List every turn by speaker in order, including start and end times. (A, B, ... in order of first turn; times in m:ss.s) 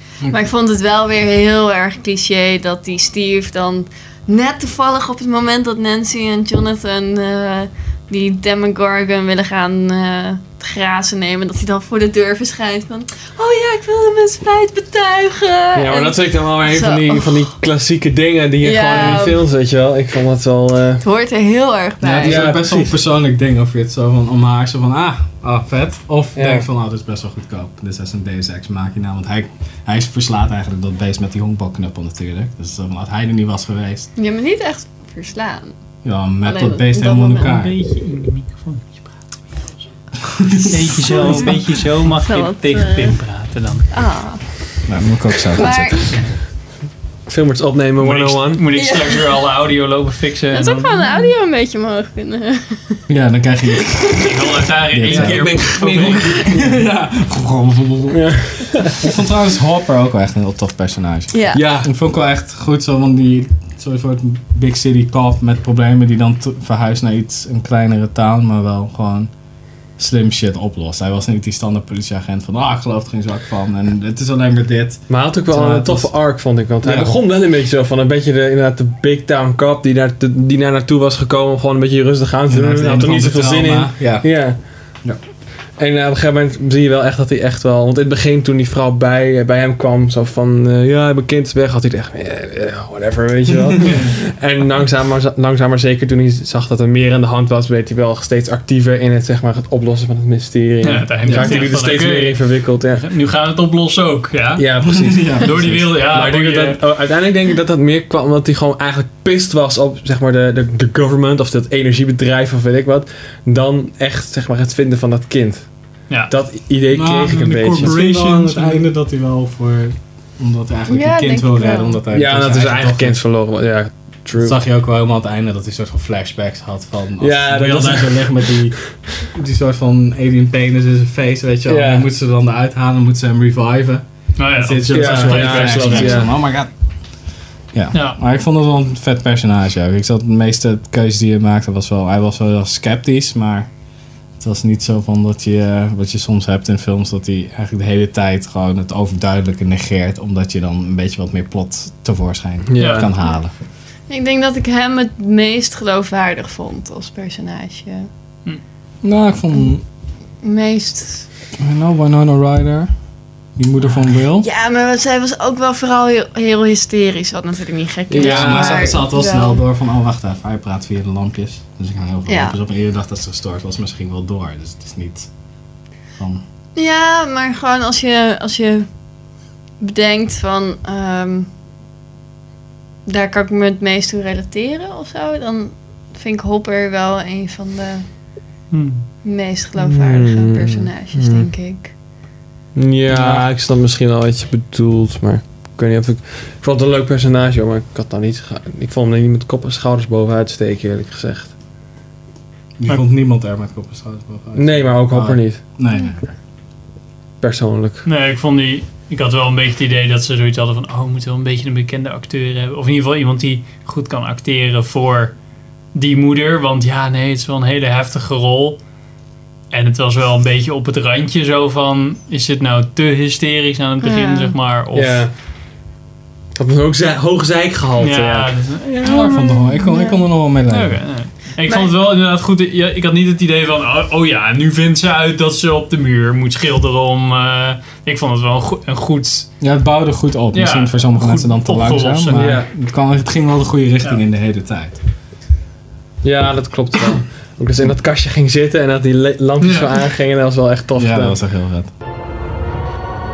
0:00.3-0:17.5 A
0:15.7-0:21.0 B
0:18.6-0:19.4 A
0:21.0-0:22.4 A
0:22.0-0:34.1 C
0:22.2-0:23.0 B
0:26.3-0:26.7 B
0:34.2-0:35.8 A
0:36.0-0:37.8 C
0:36.4-0:37.6 A
0:37.4-0:39.8 D
0:40.4-0:41.6 C
0:40.5-0:43.9 D
0:41.1-0:43.2 A
0:43.9-0:44.8 A
0:44.8-0:46.3 C
0:45.6-0:46.1 A
0:47.3-0:48.6 B
0:48.0-0:51.0 D
0:48.7-0:49.4 A
0:50.5-0:53.0 A
0:53.1-0:58.4 C
0:54.2-0:56.4 D
0:55.1-0:56.7 B
0:58.1-0:59.0 B
0:59.0-1:09.3 C
1:01.3-1:01.6 A
1:01.5-1:01.9 B
1:10.0-1:17.2 C
1:15.1-1:25.0 B
1:22.5-1:25.2 C
1:25.8-1:43.0 B
1:40.8-1:44.7 D
1:41.2-1:41.8 C
1:44.6-1:57.9 B
1:44.8-1:45.9 C
1:45.4-1:46.8 D
1:56.9-2:03.2 C
1:57.6-1:58.8 D
2:00.9-2:02.0 A
2:02.1-2:04.6 B
2:04.4-2:23.7 C
2:07.2-2:09.0 B
2:11.7-2:12.1 B
2:14.4-2:16.2 D
2:14.9-2:16.3 B
2:17.9-2:18.2 D
2:24.4-2:33.5 C
2:32.7-2:33.1 B
2:32.8-2:33.0 D
2:34.1-2:38.1 A
2:39.0-2:39.8 C
2:40.4-2:41.3 A
2:41.6-2:42.9 C
2:43.5-2:44.5 C
2:44.4-2:49.6 A
2:48.1-2:49.0 B
2:48.2-2:55.3 C
2:52.3-2:52.6 A
2:56.2-2:56.4 C
2:56.8-2:58.9 A
2:59.8-3:01.5 A
3:03.0-3:08.2 A
3:08.7-3:09.1 D
3:09.2-3:11.9 A
3:09.8-3:11.5 B
3:12.7-3:21.5 B
3:13.1-3:13.5 C
3:22.8-3:26.4 C
3:24.5-3:25.6 B
3:27.4-3:28.0 B
3:28.0-3:35.4 D
3:35.9-3:38.8 D
3:39.7-3:45.2 D
3:44.0-3:44.6 A
3:44.9-3:45.3 B
3:46.5-3:48.5 B
3:48.0-3:49.4 D
3:49.0-3:51.2 C
3:49.1-3:50.2 A
3:50.7-3:59.5 D
3:51.6-3:51.9 A
3:59.6-4:05.0 C
4:00.5-4:02.5 D
4:02.3-4:02.7 B
4:06.2-4:11.4 B
4:09.6-4:09.9 D
4:11.0-4:11.9 C